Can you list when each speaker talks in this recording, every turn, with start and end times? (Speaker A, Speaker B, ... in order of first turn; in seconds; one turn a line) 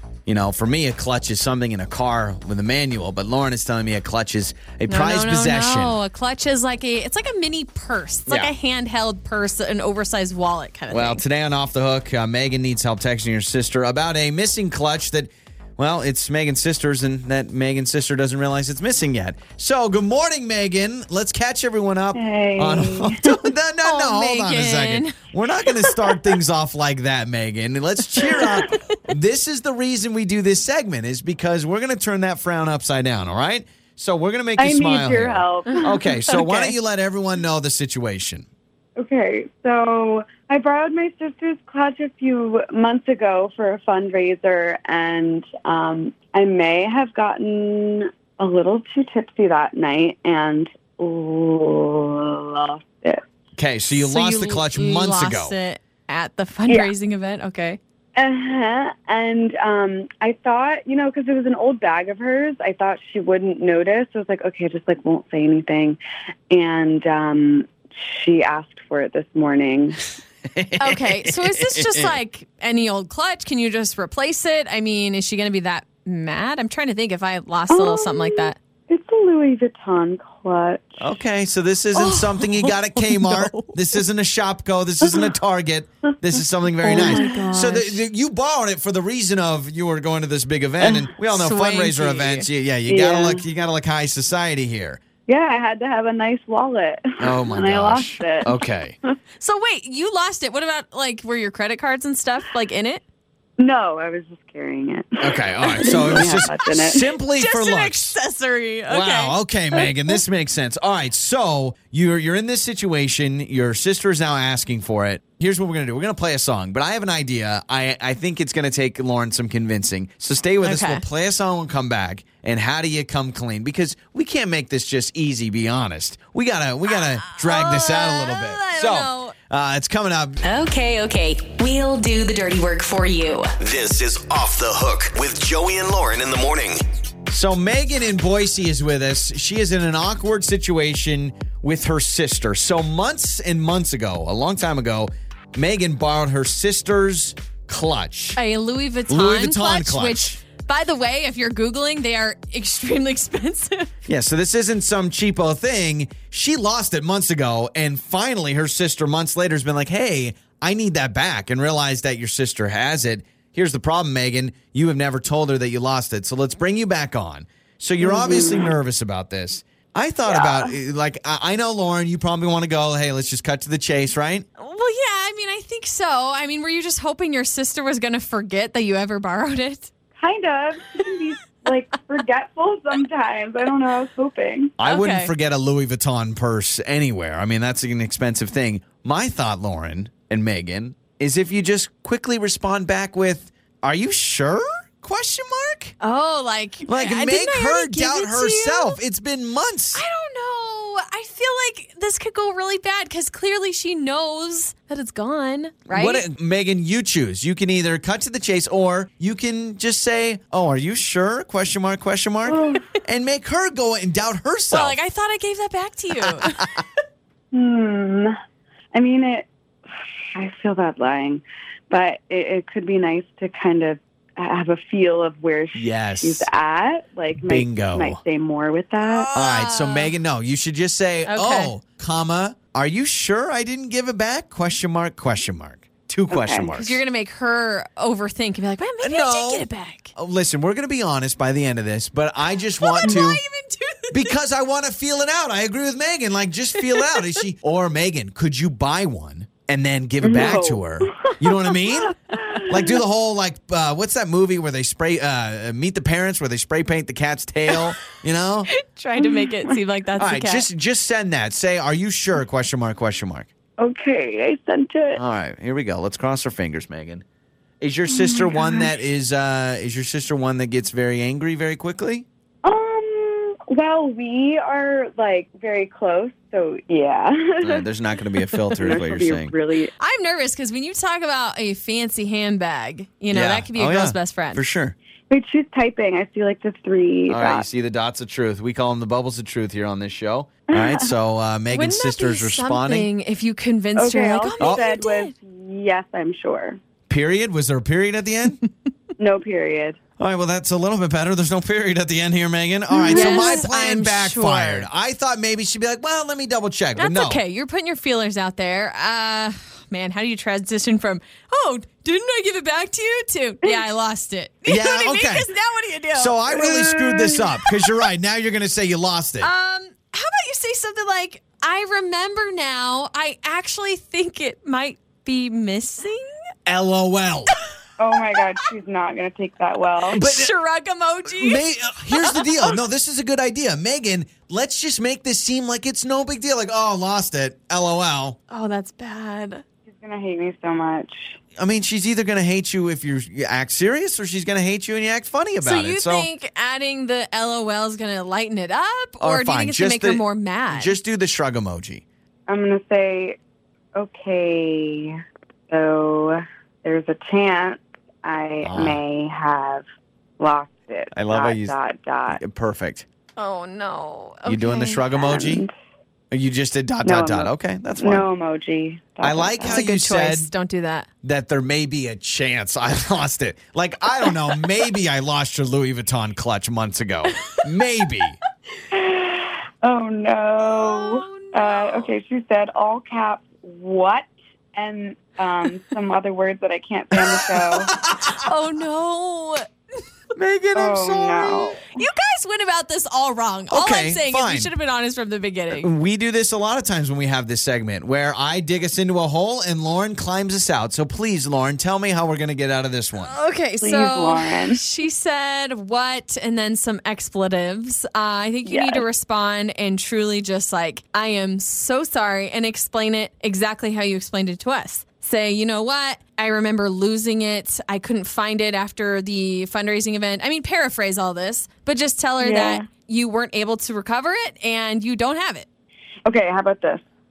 Speaker A: 0.2-6.0
Speaker B: 4.9-11.2
Speaker A: 8.3-8.5
Speaker A: 10.9-38.5
Speaker C: 22.1-23.4
Speaker B: 23.8-25.2
Speaker C: 34.6-36.4
Speaker B: 35.7-36.7
Speaker C: 39.0-53.2
Speaker A: 53.5-55.5
Speaker B: 54.0-57.8
Speaker C: 58.1-66.0
Speaker C: 66.5-70.0
Speaker A: 70.5-72.2
Speaker B: 70.8-78.5
Speaker C: 77.7-81.1
Speaker A: 81.0-95.0
Speaker B: 81.9-83.7
Speaker B: 86.8-88.0
Speaker C: 86.8-87.5
Speaker B: 91.3-92.5
Speaker C: 92.8-93.4
Speaker C: 95.3-98.6
Speaker A: 97.2-99.0
Speaker B: 99.4-103.0
Speaker C: 103.6-107.0
Speaker A: 105.2-108.2
Speaker B: 105.8-106.4
Speaker B: 107.3-109.3
Speaker A: 108.9-130.4
Speaker B: 120.6-121.0
Speaker B: 127.2-129.3
Speaker D: 130.4-133.5
Speaker E: 133.6-136.8
Speaker A: 137.3-148.4
Speaker B: 148.3-153.9
Speaker A: 149.1-150.4
Speaker A: 154.1-174.4
Speaker C: 168.0-168.7
Speaker C: 170.3-170.7
Speaker B: 174.6-179.9
Speaker C: 180.2-184.7
Speaker A: 184.8-195.9
Speaker B: 184.8-185.3
Speaker B: 196.0-199.0
Speaker A: 196.8-200.0
Speaker B: 199.9-206.2
Speaker A: 205.9-215.0
Speaker C: 212.4-212.8
Speaker B: 214.7-216.6
Speaker A: 216.2-216.8
Speaker C: 217.5-218.3
Speaker C: 218.9-219.5
Speaker C: 220.3-229.3
Speaker A: 225.7-226.5
Speaker A: 227.4-228.2
Speaker B: 229.0-230.1
Speaker A: 229.3-237.0
Speaker B: 231.3-231.7
Speaker C: 236.3-236.7
Speaker B: 236.7-240.1
Speaker A: 239.0-243.4
Speaker B: 242.8-244.3
Speaker A: 244.1-258.7
Speaker B: 246.8-247.3
Speaker C: 250.2-253.0
Speaker B: 258.7-260.6
Speaker C: 259.2-259.7
Speaker A: 260.2-263.5
Speaker C: 263.8-265.2
Speaker A: 265.1-267.2
Speaker A: 267.8-272.2
Speaker C: 268.1-268.9
Speaker C: 272.6-277.9
Speaker A: 277.6-279.5
Speaker C: 278.7-279.9
Speaker B: 280.0-284.6
Speaker A: 283.3-284.9
Speaker C: 285.3-287.6
Speaker A: 287.3-293.1
Speaker C: 290.7-291.1
Speaker B: 291.7-295.3
Speaker C: 293.9-296.8
Speaker A: 297.1-298.6
Speaker C: 299.2-300.0
Speaker A: 300.2-307.4
Speaker C: 302.9-303.6
Speaker B: 303.1-304.9
Speaker B: 307.0-316.4
Speaker A: 314.6-315.5
Speaker A: 316.1-319.5
Speaker C: 316.5-317.7
Speaker B: 319.4-326.3
Speaker A: 326.6-327.5
Speaker C: 328.0-330.2
Speaker B: 330.1-332.5
Speaker A: 330.1-330.5
Speaker A: 331.2-338.4
Speaker B: 338.5-339.6
Speaker C: 339.9-341.4
Speaker A: 341.6-346.3
Speaker B: 345.6-350.9
Speaker A: 349.2-352.0
Speaker C: 352.5-353.4
Speaker C: 353.9-355.2
Speaker C: 355.7-359.9
Speaker A: 358.6-359.0
Speaker C: 360.4-362.4
Speaker A: 361.1-361.8
Speaker A: 362.3-363.1
Speaker B: 363.4-365.0
Speaker A: 364.4-365.6
Speaker C: 365.1-365.7
Speaker A: 366.3-368.3
Speaker C: 367.0-369.8
Speaker A: 369.2-370.5
Speaker B: 369.6-371.1
Speaker A: 371.2-378.4
Speaker C: 378.9-387.9
Speaker B: 380.6-382.1
Speaker A: 387.2-388.3
Speaker B: 388.2-389.7
Speaker A: 390.4-391.8
Speaker C: 390.7-391.9
Speaker B: 391.9-395.9
Speaker A: 393.7-394.7
Speaker A: 395.7-403.3
Speaker B: 403.2-425.7
Speaker C: 403.8-404.8
Speaker C: 408.6-409.0
Speaker C: 422.4-422.9
Speaker C: 426.2-427.0